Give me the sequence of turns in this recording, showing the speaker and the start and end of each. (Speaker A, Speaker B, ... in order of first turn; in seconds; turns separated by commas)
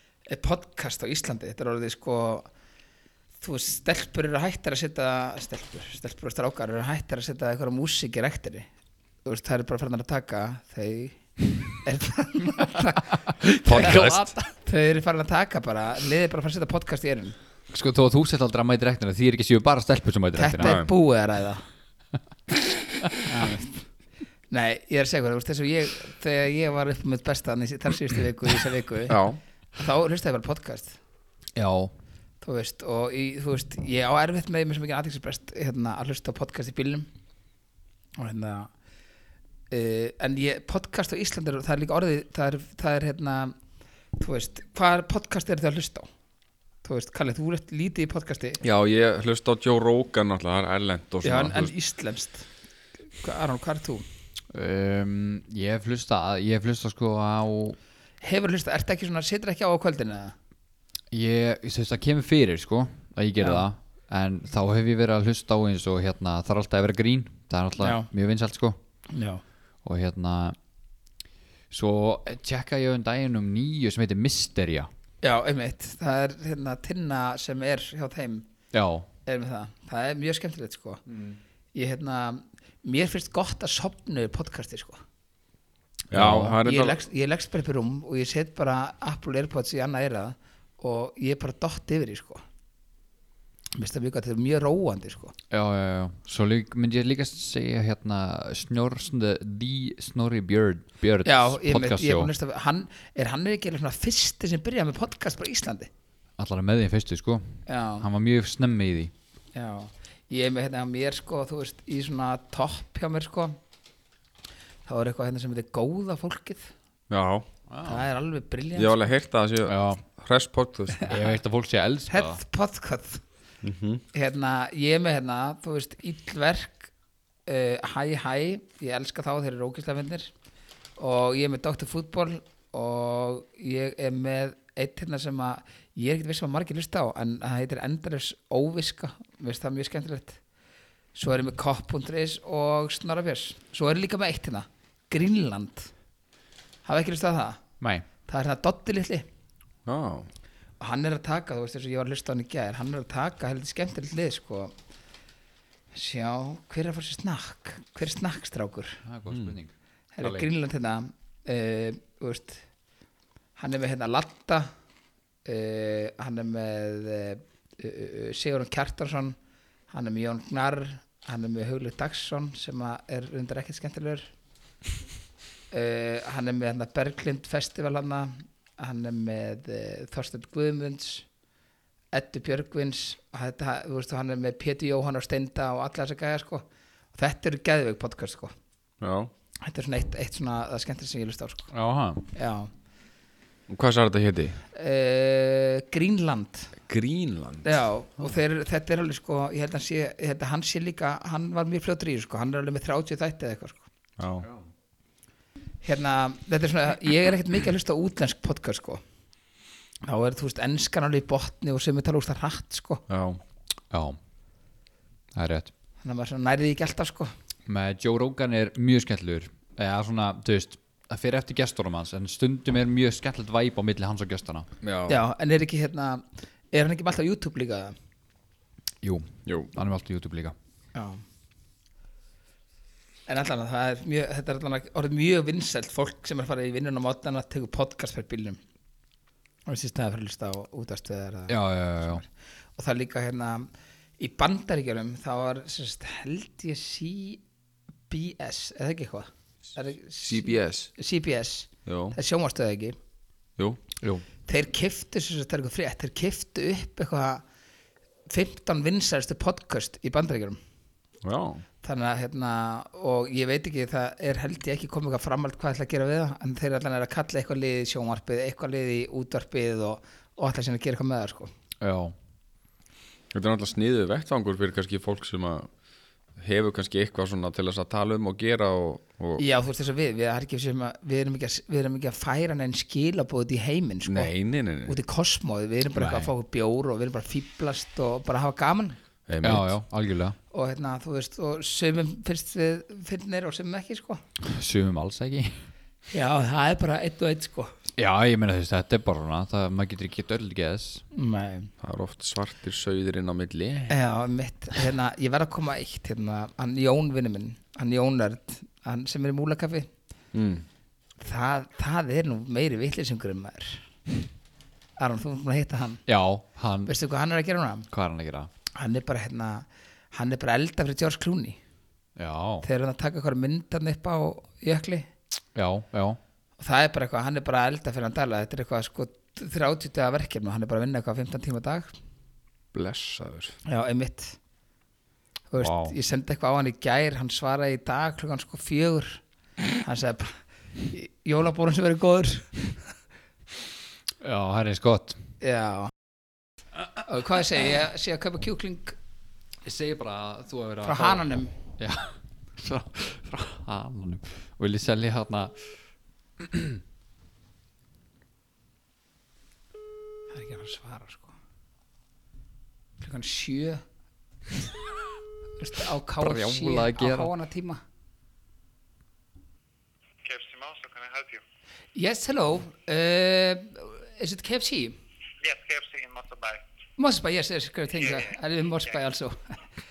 Speaker A: 0.3-2.5, Speaker A: 3.4-8.7, Speaker A: 9.2-11.2, Speaker A: 11.8-13.2, Speaker B: 13.4-14.5, Speaker C: 13.7-14.3, Speaker A: 13.7-14.1, Speaker A: 14.6-17.4, Speaker B: 17.7-20.8, Speaker A: 20.4-21.6, Speaker C: 20.6-20.9, Speaker A: 23.2-23.8, Speaker A: 24.5-29.2, Speaker C: 29.1-29.4, Speaker A: 29.8-31.0, Speaker B: 31.6-31.9, Speaker A: 32.4-37.1, Speaker A: 38.2-38.7, Speaker A: 39.7-43.6, Speaker A: 44.2-46.1, Speaker A: 46.8-48.6, Speaker C: 48.6-51.7, Speaker A: 51.2-52.5, Speaker A: 53.2-54.0, Speaker B: 54.5-57.8, Speaker A: 58.2-60.4, Speaker B: 61.1-68.8, Speaker A: 63.4-63.6, Speaker A: 67.8-68.1, Speaker A: 69.1-69.4, Speaker B: 69.8-70.6, Speaker B: 71.7-74.9, Speaker A: 75.2-78.5, Speaker B: 78.7-79.1, Speaker A: 79.2-81.0, Speaker A: 81.7-85.0, Speaker C: 86.1-87.0, Speaker B: 86.1-86.6, Speaker A: 86.6-92.4, Speaker A: 93.8-95.3, Speaker B: 95.5-102.3, Speaker A: 101.2-105.9, Speaker B: 106.4-109.1, Speaker A: 107.7-108.1, Speaker A: 109.5-113.6, Speaker A: 114.9-116.7, Speaker C: 117.1-117.5, Speaker B: 117.7-118.0, Speaker A: 117.8-119.0, Speaker C: 118.8-121.1, Speaker B: 119.7-120.0, Speaker B: 121.1-122.4, Speaker A: 122.1-123.2, Speaker C: 123.6-124.0, Speaker A: 124.1-126.9, Speaker A: 127.5-130.3, Speaker A: 131.0-140.4, Speaker A: 141.2-145.9, Speaker A: 146.8-147.6, Speaker A: 148.3-149.2, Speaker C: 149.9-150.3, Speaker A: 150.8-154.7, Speaker A: 155.9-159.0, Speaker B: 159.1-160.5, Speaker C: 159.3-159.5, Speaker A: 160.2-162.6, Speaker A: 163.6-164.7, Speaker A: 165.5-169.4, Speaker A: 169.9-174.3, Speaker A: 175.7-181.3, Speaker A: 182.1-188.5, Speaker C: 189.0-189.3, Speaker A: 189.6-191.7, Speaker B: 191.7-192.3, Speaker A: 192.3-192.7, Speaker C: 193.7-194.6, Speaker A: 194.7-196.7, Speaker C: 196.8-197.7, Speaker A: 197.6-203.8, Speaker C: 204.2-204.5, Speaker A: 205.8-209.0, Speaker A: 210.0-213.0, Speaker C: 213.1-213.4, Speaker B: 213.9-214.2, Speaker B: 215.3-215.7, Speaker A: 216.0-217.3, Speaker B: 217.7-224.7, Speaker C: 224.8-225.2, Speaker A: 225.1-228.0, Speaker B: 229.0-230.5, Speaker C: 229.5-229.7, Speaker A: 230.9-231.2, Speaker A: 233.3-238.6, Speaker A: 239.7-242.2, Speaker B: 241.5-242.2, Speaker A: 242.8-247.4, Speaker A: 248.1-253.0, Speaker C: 250.2-250.9, Speaker C: 251.9-252.2, Speaker A: 254.5-257.4, Speaker A: 258.3-260.6, Speaker C: 261.2-261.6, Speaker A: 261.8-271.5, Speaker B: 271.8-272.1, Speaker C: 273.3-275.7, Speaker C: 276.4-279.4, Speaker A: 279.4-284.3, Speaker C: 284.1-285.0, Speaker A: 284.9-289.0, Speaker B: 286.0-286.3, Speaker C: 289.3-289.8, Speaker B: 289.4-290.4, Speaker A: 290.5-294.2, Speaker B: 294.4-295.6, Speaker A: 296.1-297.7, Speaker B: 298.0-301.0, Speaker A: 301.1-301.7, Speaker C: 301.8-303.9, Speaker A: 303.9-309.9, Speaker C: 310.3-310.6, Speaker A: 311.2-313.8, Speaker A: 315.0-316.0, Speaker B: 316.1-316.9, Speaker A: 316.9-317.9, Speaker B: 317.9-318.5, Speaker A: 318.8-321.6, Speaker B: 322.2-322.6, Speaker A: 322.6-325.1, Speaker B: 325.6-326.2, Speaker A: 326.6-331.9, Speaker C: 332.7-333.6, Speaker A: 333.7-334.4, Speaker A: 335.5-339.2, Speaker B: 335.6-335.9, Speaker A: 339.8-342.8, Speaker B: 344.2-345.2, Speaker A: 345.4-345.9, Speaker A: 347.1-349.0, Speaker B: 349.6-351.2, Speaker A: 350.8-351.5, Speaker B: 351.8-355.5, Speaker B: 356.4-356.8, Speaker A: 360.3-361.3, Speaker A: 363.0-363.8, Speaker A: 365.6-367.8, Speaker B: 366.2-367.3, Speaker D: 370.2-371.4, Speaker A: 372.0-375.0, Speaker D: 375.4-376.6, Speaker A: 377.0-379.6, Speaker D: 378.0-378.4